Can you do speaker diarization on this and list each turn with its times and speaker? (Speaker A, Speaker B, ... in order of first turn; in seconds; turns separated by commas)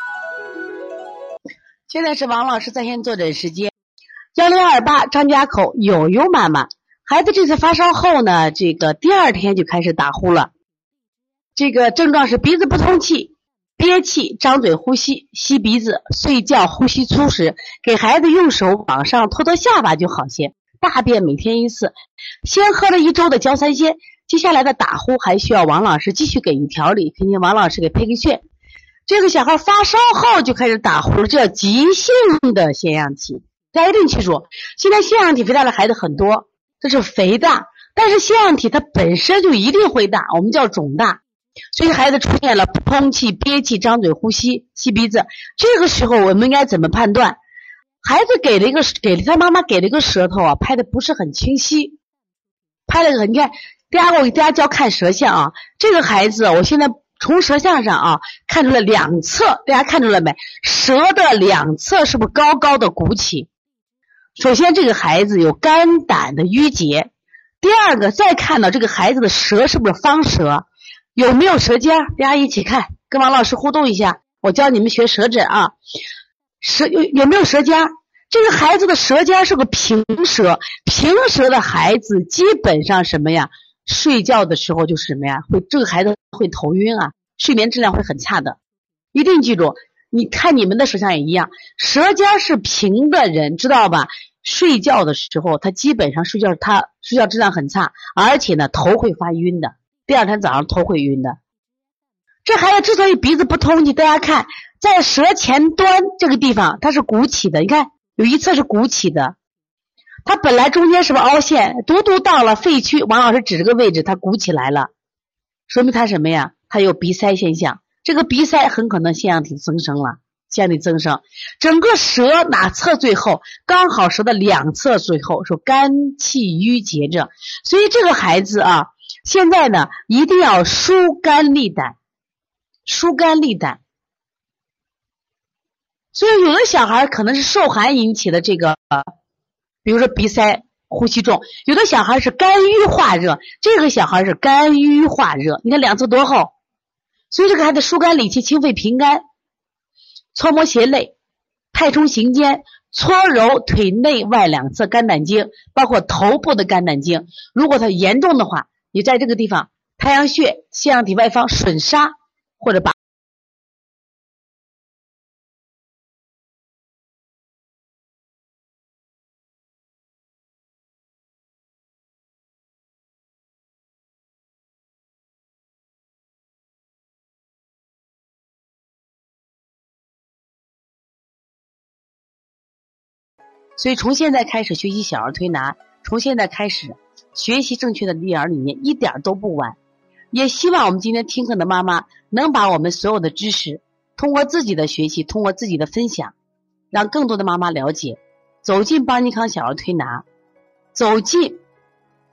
Speaker A: 1.9-3.7, Speaker A: 4.3-10.5, Speaker A: 11.6-21.9, Speaker A: 22.4-28.4, Speaker A: 29.1-41.2, Speaker A: 41.7-47.4, Speaker A: 48.0-52.0, Speaker A: 52.9-63.5, Speaker A: 64.4-75.8, Speaker A: 76.6-88.6, Speaker A: 89.1-101.4, Speaker A: 102.5-109.4, Speaker A: 110.2-114.9, Speaker A: 115.7-132.0, Speaker A: 132.9-133.8, Speaker A: 136.1-139.1, Speaker A: 139.8-146.5, Speaker A: 147.3-149.2, Speaker A: 150.3-151.1, Speaker A: 151.7-162.9, Speaker A: 183.8-189.8, Speaker A: 190.3-196.3, Speaker A: 196.9-200.2, Speaker A: 200.9-201.6